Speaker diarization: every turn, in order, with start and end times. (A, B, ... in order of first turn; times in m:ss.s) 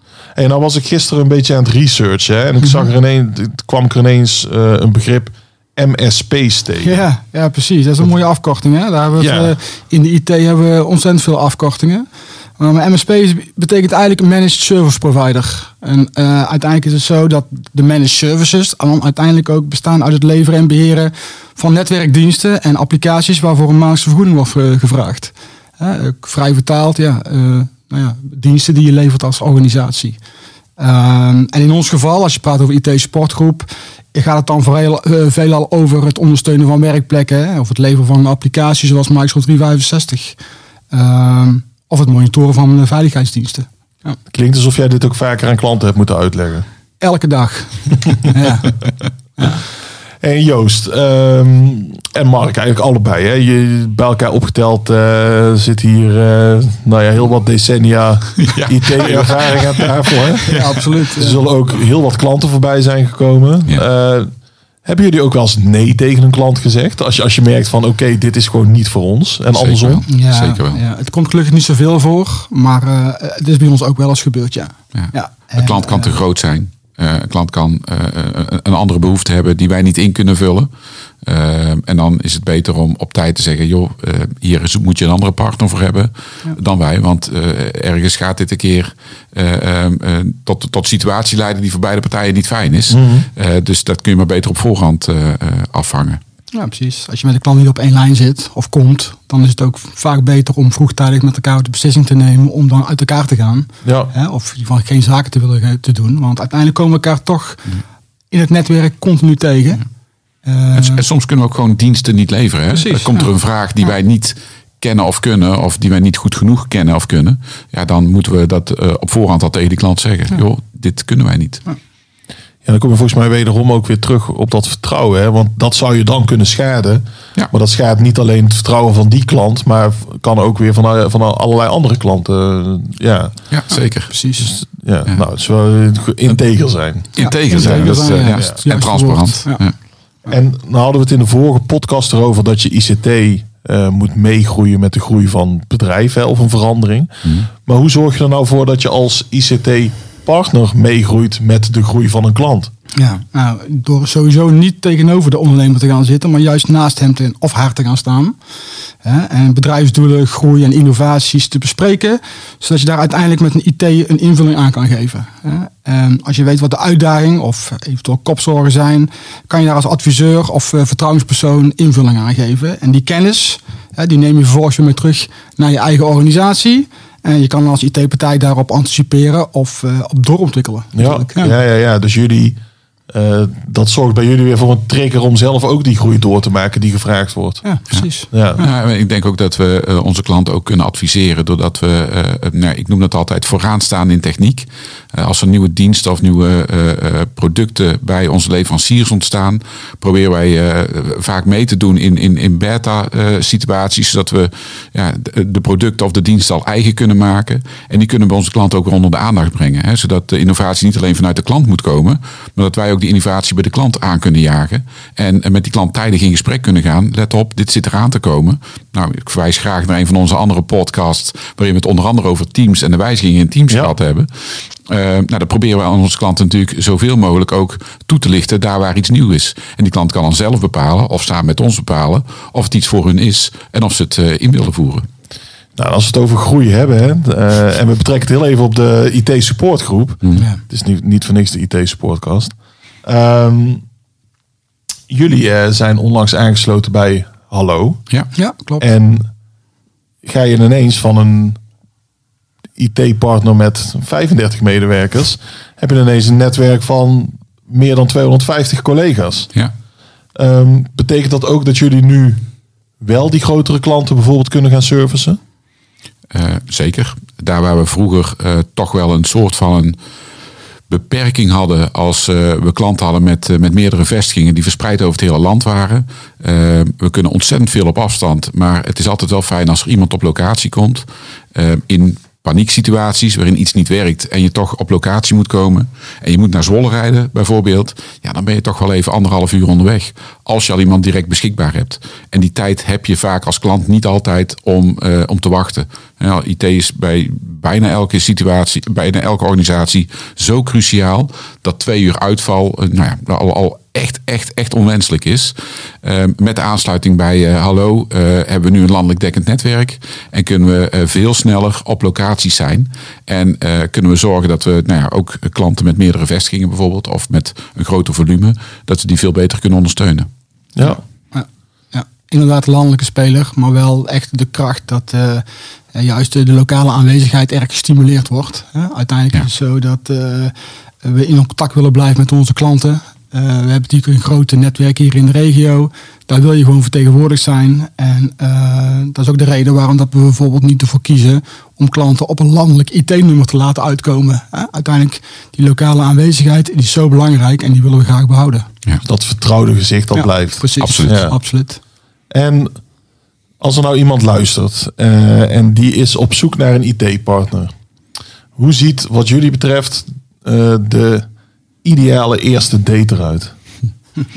0:00.3-0:07.0 A
0:06.8-0:12.1 B
0:09.2-0:09.5 A
0:12.6-0:30.2 B
0:30.8-0:40.4 B
0:40.9-0:44.2 B
0:44.3-0:46.6 A
0:47.0-0:48.8 B
0:50.2-1:00.6 A
0:58.4-1:00.1 C
1:00.4-1:01.4 B
1:01.2-1:04.3 A
1:04.8-1:10.0 A
1:09.5-1:10.8 C
1:10.1-1:16.1 B
1:14.9-1:20.7 C
1:21.2-1:36.2 C
1:32.9-1:33.3 A
1:36.5-1:49.9 B
1:43.8-1:44.1 A
1:50.4-1:51.0 B
1:50.7-2:01.6 C
1:52.7-1:53.3 B
2:02.6-2:13.4 A
2:13.5-2:14.1 C
2:13.7-2:14.6 B
2:14.7-2:18.6 A
2:17.1-2:19.7 C
2:17.2-2:19.6 B
2:20.3-2:32.7 A
2:32.9-2:38.4 B
2:39.0-3:01.6 B
3:00.9-3:02.6 A
3:03.1-3:07.6 A
3:07.6-3:08.6 B
3:08.3-3:08.6 A
3:08.6-3:44.3 C
3:44.9-3:55.0 C
3:55.8-4:03.8 A
4:05.1-4:08.0 A
4:08.4-4:08.9 B
4:08.8-4:09.3 A
4:10.2-4:11.6 A
4:12.8-4:19.5 A
4:20.4-4:22.4 A
4:23.0-4:25.4 A
4:26.3-4:30.0 C
4:30.9-5:20.3 C
5:20.8-5:21.0 A
5:20.8-5:48.7 B
5:49.0-5:51.3 A
5:50.1-5:51.8 B
5:50.8-5:51.2 C
5:52.3-5:52.8 A
5:53.6-5:57.7 A
5:58.6-6:01.2 A
6:01.8-6:03.5 A